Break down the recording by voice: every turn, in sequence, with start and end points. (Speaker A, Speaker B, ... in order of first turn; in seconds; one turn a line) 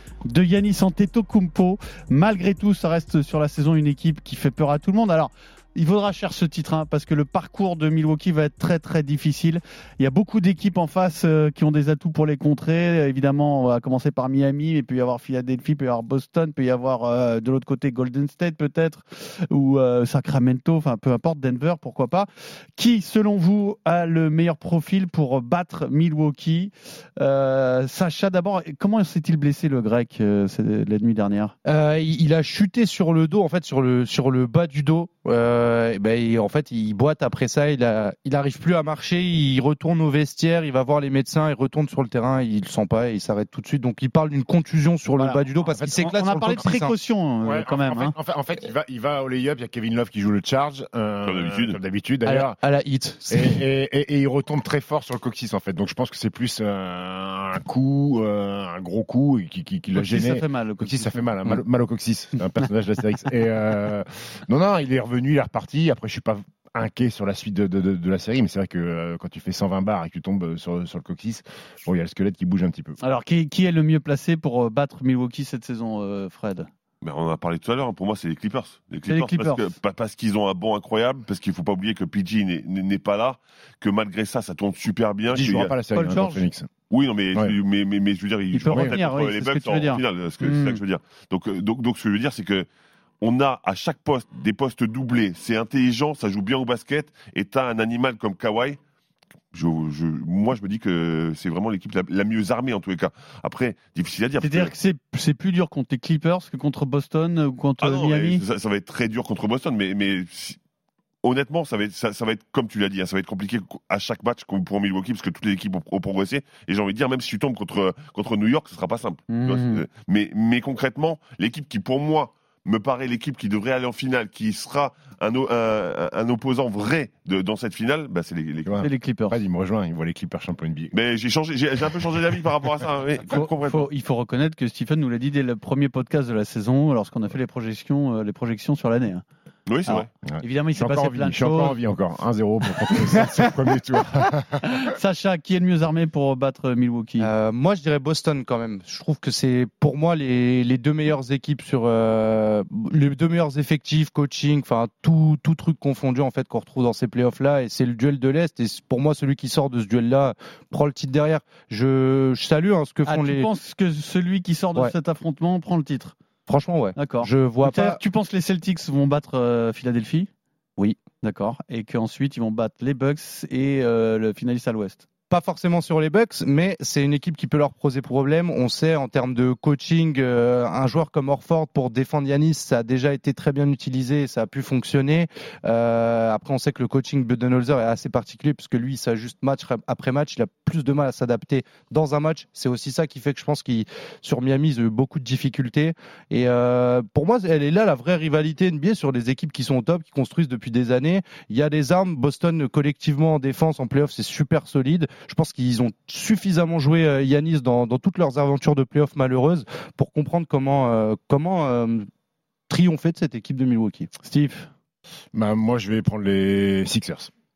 Speaker A: 0.3-31.5
Speaker B: 31.6-46.9
Speaker A: 45.2-48.1
Speaker C: 45.7-46.0
Speaker C: 47.4-52.6
Speaker D: 51.2-51.8
Speaker B: 52.2-53.6
Speaker C: 53.3-73.0
Speaker A: 59.9-61.3
Speaker A: 73.0-76.7
Speaker D: 77.0-85.7
Speaker A: 79.1-79.7
Speaker C: 85.3-86.7
Speaker A: 85.9-86.5
Speaker D: 86.9-92.7
Speaker A: 88.5-90.8
Speaker C: 88.7-89.0
Speaker D: 93.2-98.8
Speaker D: 99.5-104.7
Speaker A: 104.4-108.4
Speaker D: 107.8-110.6
Speaker D: 111.2-128.7
Speaker A: 119.3-119.8
Speaker C: 128.6-130.9
Speaker A: 128.8-129.4
Speaker D: 130.9-133.9
Speaker A: 133.3-139.2
Speaker D: 139.7-140.1
Speaker A: 139.8-141.8
Speaker C: 140.2-144.9
Speaker A: 144.6-147.3
Speaker B: 147.2-163.5
Speaker A: 163.0-166.1
Speaker B: 166.5-168.0
Speaker A: 166.9-170.3
Speaker A: 171.2-175.0
Speaker B: 175.3-212.1
Speaker B: 212.7-214.1
Speaker A: 214.2-214.7
Speaker C: 215.3-217.3